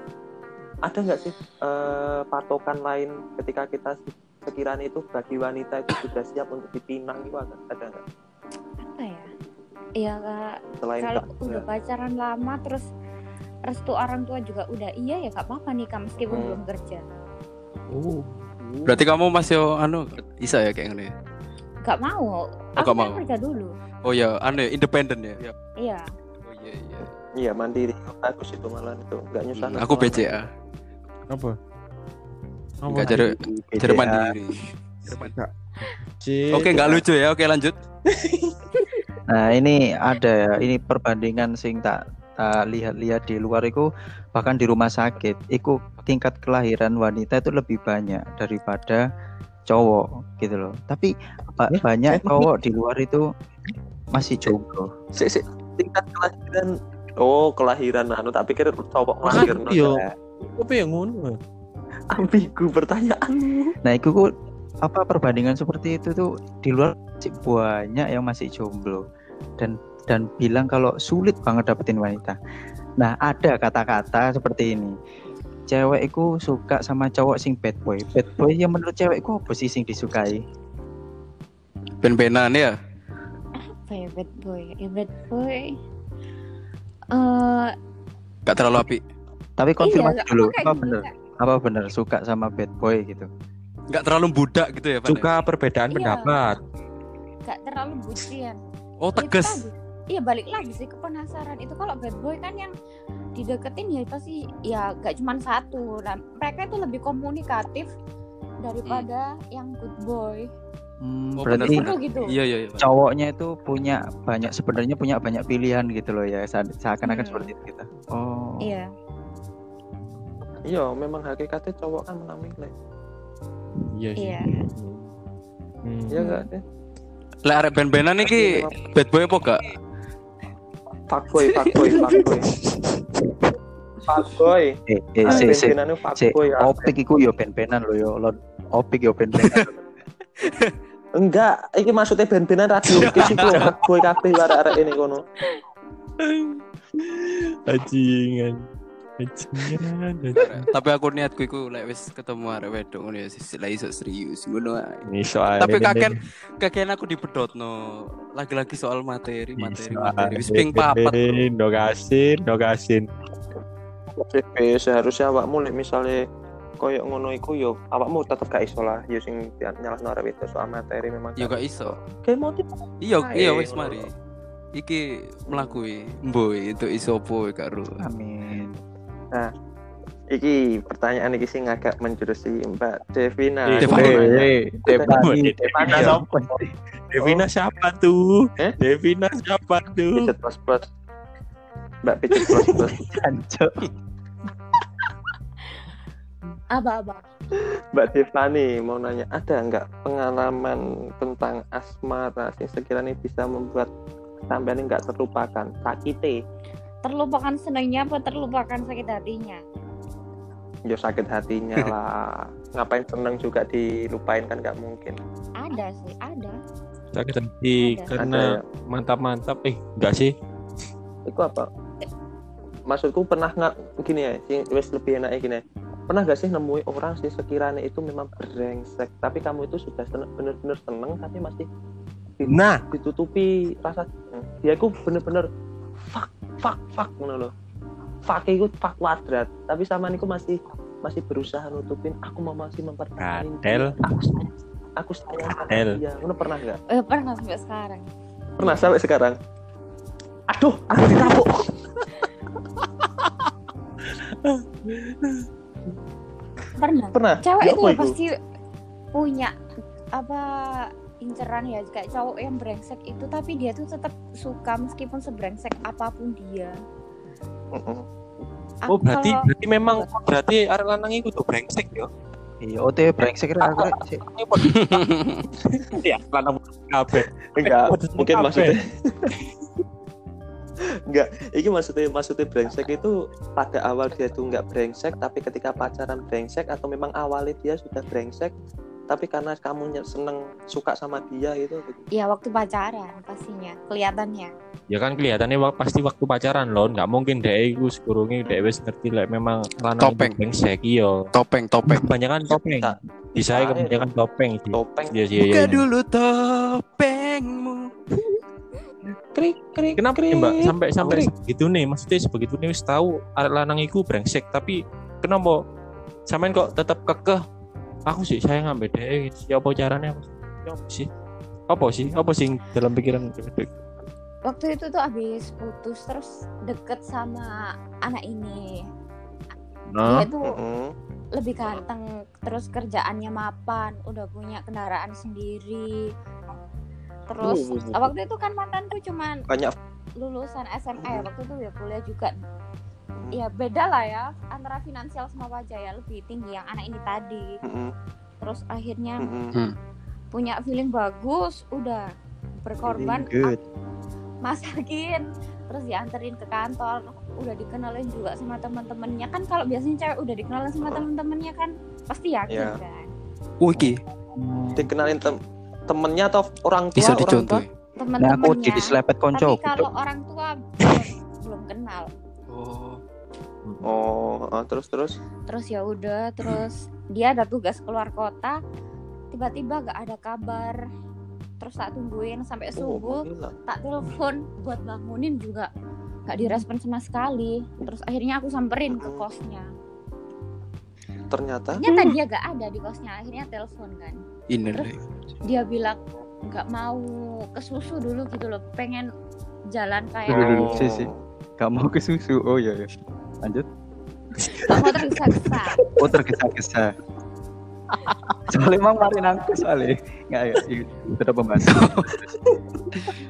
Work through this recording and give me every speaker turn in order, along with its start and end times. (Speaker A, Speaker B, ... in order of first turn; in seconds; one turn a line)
Speaker A: 0.8-8.0
Speaker B: 8.8-9.3
Speaker B: 10.0-12.8
Speaker A: 10.8-11.6
Speaker B: 13.7-17.0
Speaker A: 16.3-16.6
Speaker C: 17.9-19.0
Speaker D: 18.9-21.1
Speaker B: 21.8-23.7
Speaker D: 22.8-23.2
Speaker D: 24.0-25.6
Speaker B: 25.8-26.1
Speaker D: 26.4-27.1
Speaker A: 27.4-30.4
Speaker D: 29.6-30.5
Speaker C: 31.3-31.6
Speaker C: 32.8-33.2
Speaker E: 33.0-34.3
Speaker D: 33.0-35.3
Speaker C: 35.1-35.5
Speaker C: 36.2-37.0
Speaker D: 36.5-37.7
Speaker C: 38.1-38.5
Speaker E: 39.3-49.0
Speaker E: 49.7-53.2
Speaker A: 52.1-52.4
Speaker E: 54.1-54.9
Speaker A: 55.1-60.1
Speaker C: 59.2-61.4
Speaker A: 62.1-63.7
Speaker E: 63.8-64.3
Speaker E: 64.8-69.0
Speaker E: 69.6-72.3
Speaker E: 73.0-74.9
Speaker E: 75.7-80.4
Speaker D: 82.0-82.7
Speaker B: 83.6-85.7
Speaker B: 87.1-87.7
Speaker D: 88.5-89.0
Speaker E: 89.6-93.3
Speaker B: 89.8-91.1
Speaker D: 93.9-95.3
Speaker C: 95.0-96.6
Speaker B: 95.9-96.4
Speaker B: 97.5-98.6
Speaker D: 99.0-99.6
Speaker B: 99.2-102.7
Speaker B: 103.4-107.9
Speaker B: 108.6-110.5
Speaker E: 111.0-111.8
Speaker D: 111.4-112.9
Speaker B: 111.6-112.3
Speaker E: 112.8-118.6
Speaker B: 117.0-117.5
Speaker B: 118.6-118.9
Speaker C: 120.0-120.4
Speaker A: 120.7-122.7
Speaker C: 124.0-125.1
Speaker B: 124.2-124.6
Speaker C: 125.8-126.3
Speaker A: 126.1-126.6
Speaker B: 126.2-126.5
Speaker D: 127.4-129.7
Speaker A: 128.2-128.9
Speaker A: 131.1-132.5
Speaker D: 131.4-132.2
Speaker A: 134.1-134.8
Speaker E: 134.9-139.8
Speaker A: 135.3-136.9
Speaker D: 139.4-139.7
Speaker D: 140.4-140.7
Speaker A: 141.2-145.2
Speaker C: 142.9-143.8
Speaker D: 143.0-143.6
Speaker C: 146.2-148.6
Speaker C: 149.2-150.7
Speaker D: 150.3-161.4
Speaker C: 155.1-156.2
Speaker C: 159.6-163.1
Speaker A: 164.2-166.2
Speaker A: 166.8-174.1
Speaker D: 171.4-172.0
Speaker D: 173.0-174.1
Speaker D: 174.8-178.0
Speaker A: 175.5-175.8
Speaker E: 178.0-178.8
Speaker A: 180.3-185.2
Speaker C: 183.7-184.3
Speaker D: 183.8-184.4
Speaker E: 184.2-186.7
Speaker C: 184.9-186.2
Speaker A: 185.7-186.2
Speaker C: 187.1-190.3
Speaker A: 190.2-190.8
Speaker A: 192.0-193.0
Speaker E: 192.8-193.8
Speaker B: 196.7-197.2
Speaker A: 197.9-203.9
Speaker A: 204.5-206.4
Speaker B: 207.0-209.6
Speaker A: 210.9-215.2
Speaker B: 215.6-216.6
Speaker C: 217.1-220.3
Speaker B: 217.8-218.1
Speaker A: 218.1-218.6
Speaker A: 221.3-221.7
Speaker A: 222.9-231.7
Speaker A: 232.4-235.5
Speaker C: 232.5-232.8
Speaker A: 236.1-237.5
Speaker A: 238.3-246.8
Speaker C: 243.2-244.0
Speaker C: 245.5-246.0
Speaker B: 246.9-248.1
Speaker A: 248.6-249.3
Speaker B: 248.6-248.9
Speaker A: 250.5-251.7
Speaker C: 251.0-251.4
Speaker C: 253.0-253.5
Speaker C: 254.1-255.5
Speaker B: 256.8-258.3
Speaker A: 257.1-258.1
Speaker B: 259.1-259.5
Speaker B: 260.1-266.7
Speaker A: 267.7-268.0
Speaker B: 268.8-270.1
Speaker C: 268.9-272.1
Speaker E: 272.6-274.2
Speaker C: 274.3-275.0
Speaker D: 274.6-275.4
Speaker C: 275.7-278.8
Speaker A: 277.5-279.3
Speaker A: 281.1-288.5
Speaker A: 289.1-292.0
Speaker B: 292.1-294.5
Speaker C: 294.9-301.2
Speaker A: 298.4-298.7
Speaker D: 300.0-300.4
Speaker D: 301.3-302.1
Speaker C: 301.9-305.8
Speaker A: 302.5-304.1
Speaker A: 304.7-305.2
Speaker D: 305.4-307.9
Speaker A: 309.3-311.3
Speaker C: 309.9-315.6
Speaker C: 316.3-317.4
Speaker C: 318.1-321.1
Speaker C: 321.7-323.7
Speaker B: 324.4-327.5
Speaker B: 328.1-328.6
Speaker C: 329.9-330.3
Speaker B: 330.0-330.6
Speaker A: 330.4-330.9
Speaker B: 331.4-336.0
Speaker B: 337.3-339.4
Speaker C: 337.6-337.9
Speaker A: 337.7-338.0
Speaker A: 339.5-339.7
Speaker B: 340.2-342.3
Speaker A: 341.0-341.2
Speaker B: 343.3-347.5
Speaker A: 347.6-347.9
Speaker B: 348.4-349.2
Speaker A: 349.2-349.5
Speaker B: 350.3-352.1
Speaker B: 352.6-353.6
Speaker E: 352.9-353.6
Speaker B: 354.4-363.1
Speaker A: 362.5-362.8
Speaker D: 363.6-364.0
Speaker E: 363.8-364.9
Speaker A: 364.8-365.4
Speaker A: 365.9-367.6
Speaker D: 367.0-367.7
Speaker B: 368.0-372.1
Speaker E: 368.2-369.9
Speaker D: 372.5-373.0
Speaker C: 373.6-374.0
Speaker A: 373.9-375.1
Speaker B: 375.5-378.6
Speaker B: 379.3-380.8
Speaker B: 381.6-385.7
Speaker A: 382.8-383.6
Speaker B: 386.3-389.6
Speaker A: 388.9-389.2
Speaker A: 391.3-391.8
Speaker B: 391.8-394.2
Speaker D: 394.5-395.0
Speaker B: 394.7-399.1
Speaker B: 399.7-400.6
Speaker E: 400.3-402.9
Speaker A: 400.3-401.2
Speaker B: 404.7-405.8
Speaker E: 406.0-406.9
Speaker E: 408.5-412.3
Speaker D: 411.7-412.1